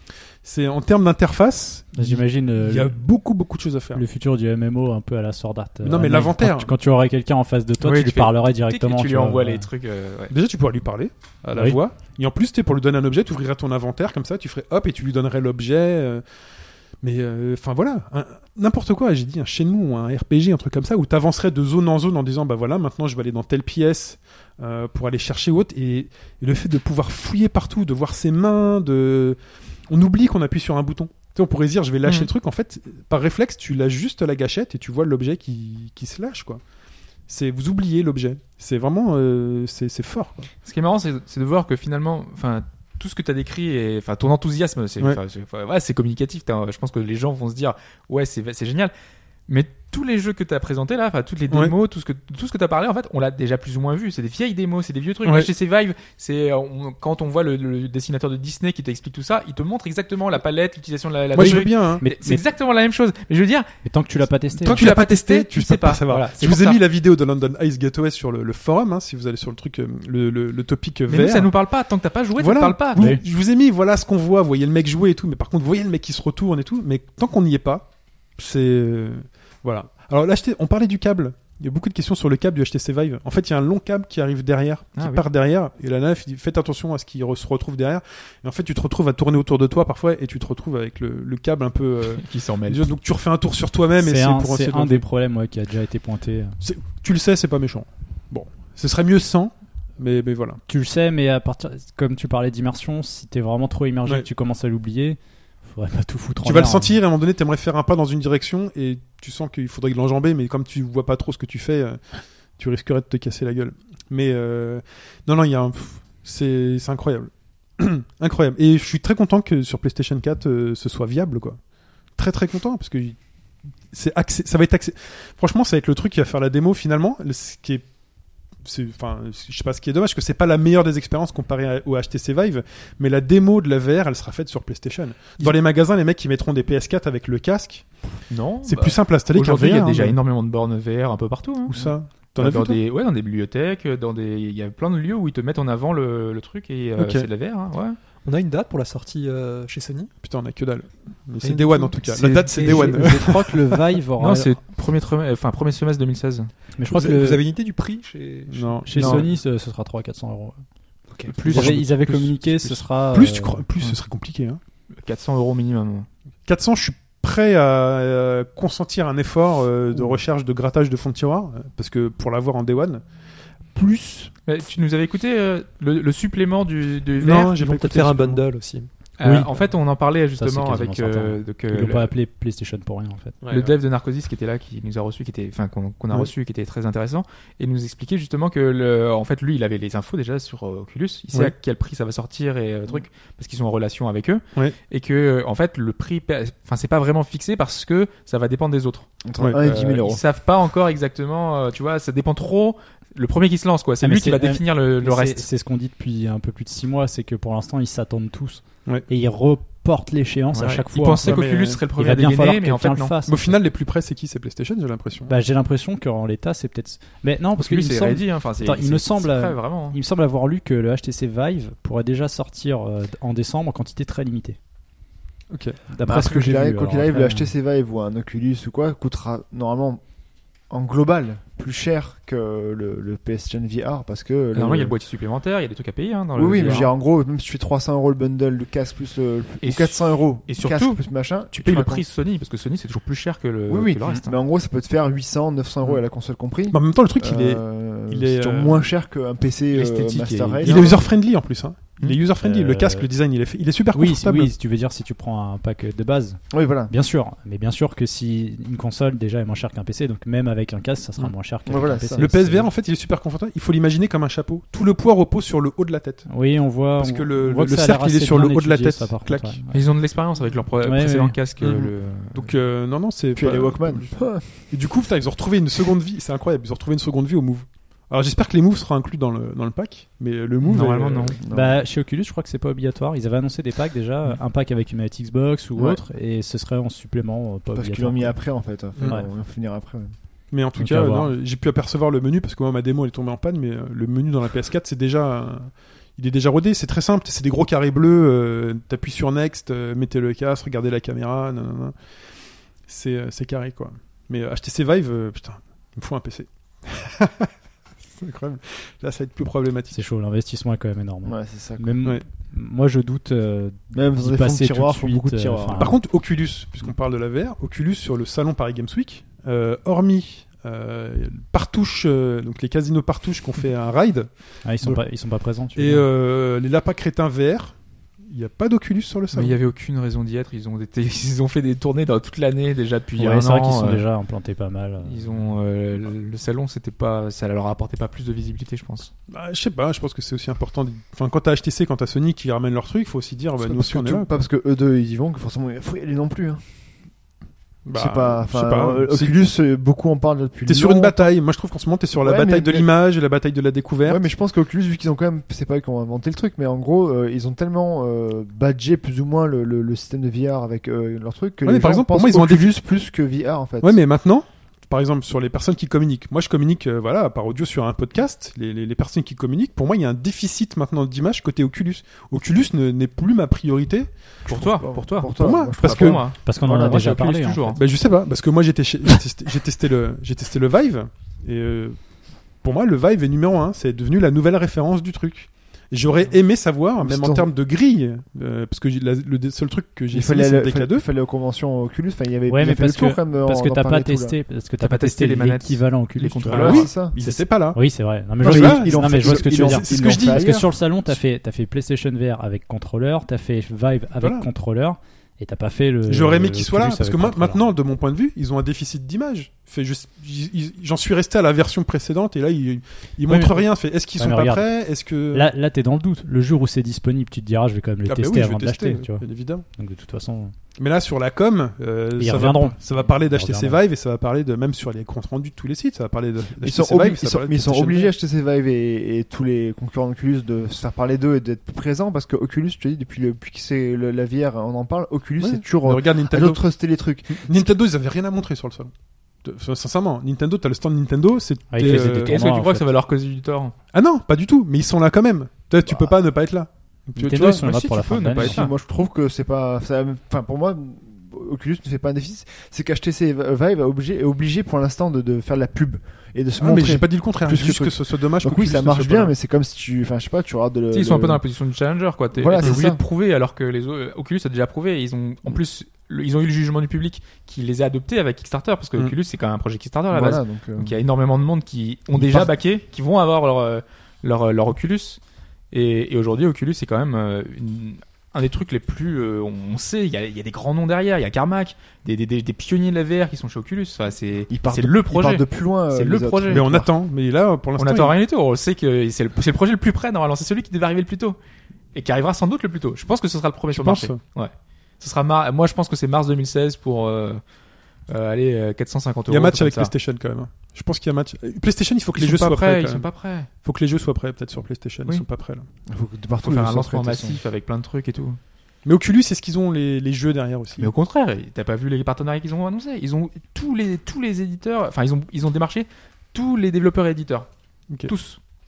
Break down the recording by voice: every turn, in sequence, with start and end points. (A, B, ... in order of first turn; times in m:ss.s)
0:00.4-0:04.0 A
0:01.9-0:02.9 B
0:03.9-0:09.7 B
0:05.8-0:06.7 A
0:07.8-0:10.3 C
0:10.3-0:16.2 A
0:17.0-0:29.4 A
0:29.9-0:36.6 A
0:32.0-0:32.3 C
0:37.3-0:40.5 A
0:40.6-0:48.9 C
0:49.5-1:03.7 C
0:55.2-0:55.5 A
1:01.3-1:02.0 A
1:01.4-1:02.4 B
1:03.8-1:04.9 B
1:04.6-1:11.5 A
1:04.7-1:06.8 C
1:11.1-1:13.1 C
1:12.4-1:35.0 A
1:13.0-1:13.2 B
1:25.0-1:25.2 C
1:32.1-1:32.9 C
1:34.0-1:36.6 B
1:36.6-1:40.6 A
1:40.7-1:47.0 B
1:46.4-2:01.6 A
2:02.2-2:03.2 A
2:03.9-2:07.8 A
2:08.6-2:17.9 A
2:18.3-2:28.0 C
2:18.6-2:20.2 A
2:21.7-2:22.8 A
2:27.0-2:27.3 A
2:28.2-2:30.1 D
2:30.2-2:33.6 A
2:31.4-2:33.5 D
2:32.5-2:34.6 B
2:34.2-2:36.5 C
2:36.8-2:37.4 B
2:36.8-2:38.8 D
2:38.5-2:39.3 A
2:38.8-2:40.6 B
2:38.9-2:39.3 C
2:41.1-2:41.4 D
2:41.3-2:42.8 C
2:41.4-2:44.6 A
2:41.4-2:43.6 B
2:45.0-2:46.1 C
2:46.5-2:53.0 A
2:54.4-2:57.6 C
2:57.2-2:58.4 A
2:57.3-2:58.9 D
2:59.2-3:02.1 C
2:59.2-2:59.5 B
3:00.4-3:03.4 B
3:03.4-3:03.8 D
3:03.5-3:25.5 C
3:19.2-3:20.2 E
3:24.0-3:31.4 B
3:30.5-3:33.2 C
3:30.6-3:31.8 A
3:32.0-3:33.6 B
3:33.2-3:35.3 A
3:35.2-3:44.6 B
3:37.6-3:40.0 C
3:45.5-3:45.8 A
3:45.9-3:47.5 B
3:46.0-3:50.0 E
3:50.7-3:55.0 E
3:54.5-3:56.9 C
3:56.3-4:02.0 E
3:59.6-4:04.4 C
4:03.7-4:11.0 E
4:06.7-4:08.9 A
4:09.7-4:11.1 C
4:10.6-4:14.5 A
4:12.4-4:13.1 B
4:13.9-4:22.7 B
4:16.5-4:16.9 E
4:21.6-4:22.3 E
4:22.2-4:29.6 A
4:26.3-4:30.0 B
4:29.7-4:32.4 C
4:30.8-4:31.4 B
4:31.6-4:31.9 D
4:32.3-4:41.4 A
4:33.3-4:34.7 E
4:40.6-4:41.4 C
4:41.4-4:41.8 E
4:41.5-4:48.4 B
4:45.8-4:46.0 E
4:47.7-4:50.1 E
4:49.0-4:49.3 B
4:50.5-5:01.9 A
4:50.8-4:51.3 B
5:02.9-5:07.5 A
5:08.2-5:10.0 A
5:09.9-5:16.0 B
5:11.2-5:11.9 E
5:13.9-5:16.0 E
5:15.8-5:25.0 A
5:24.6-5:26.0 B
5:25.7-5:27.8 A
5:28.3-5:29.6 A
5:29.3-5:34.1 C
5:33.2-5:35.4 B
5:35.0-5:39.1 C
5:39.3-5:44.4 A
5:43.6-5:46.6 E
5:47.8-5:49.4 A
5:47.9-5:51.3 E
5:50.6-5:54.2 A
5:52.2-5:52.9 E
5:54.0-6:04.0 E
6:01.6-6:02.7 A
6:03.8-6:14.1 A
6:14.4-6:17.0 E
6:14.4-6:17.8 C
6:15.4-6:16.2 A
6:16.4-6:17.8 B
6:17.8-6:22.0 A
6:22.6-6:31.0 A
6:27.0-6:27.5 E
6:30.1-6:34.4 E
6:32.5-6:47.6 B
6:34.8-6:36.9 C
6:36.5-6:37.8 A
6:36.5-6:37.2 E
6:38.4-6:40.7 E
6:38.4-6:40.6 A
6:44.2-6:44.5 A
6:46.1-6:55.5 A
6:53.3-6:54.7 B
6:55.2-7:00.5 B
6:58.0-6:59.6 A
7:00.8-7:08.1 A
7:02.2-7:03.8 B
7:06.6-7:17.6 E
7:15.4-7:16.7 A
7:17.3-7:18.9 A
7:19.4-7:22.4 A
7:21.7-7:22.9 B
7:21.8-7:23.7 C
7:23.9-7:28.3 A
7:25.8-7:26.1 E
7:27.2-7:28.7 B
7:27.6-7:28.7 C
7:28.4-7:41.4 E
7:36.6-7:39.3 A
7:40.9-7:55.2 C
7:42.3-7:43.0 E
7:42.6-7:42.9 A
7:50.1-7:51.0 E
7:52.1-7:52.5 E
7:55.7-8:06.7 C
8:04.5-8:06.9 E
8:06.5-8:08.2 A
8:07.8-8:11.4 C
8:11.9-8:17.4 C
8:13.7-8:14.2 A
8:18.1-8:19.9 C
8:19.3-8:25.7 A
8:22.1-8:23.5 C
8:25.9-8:27.4 E
8:26.4-8:28.4 C
8:28.8-8:30.9 A
8:30.8-8:37.5 C
8:38.0-8:38.4 C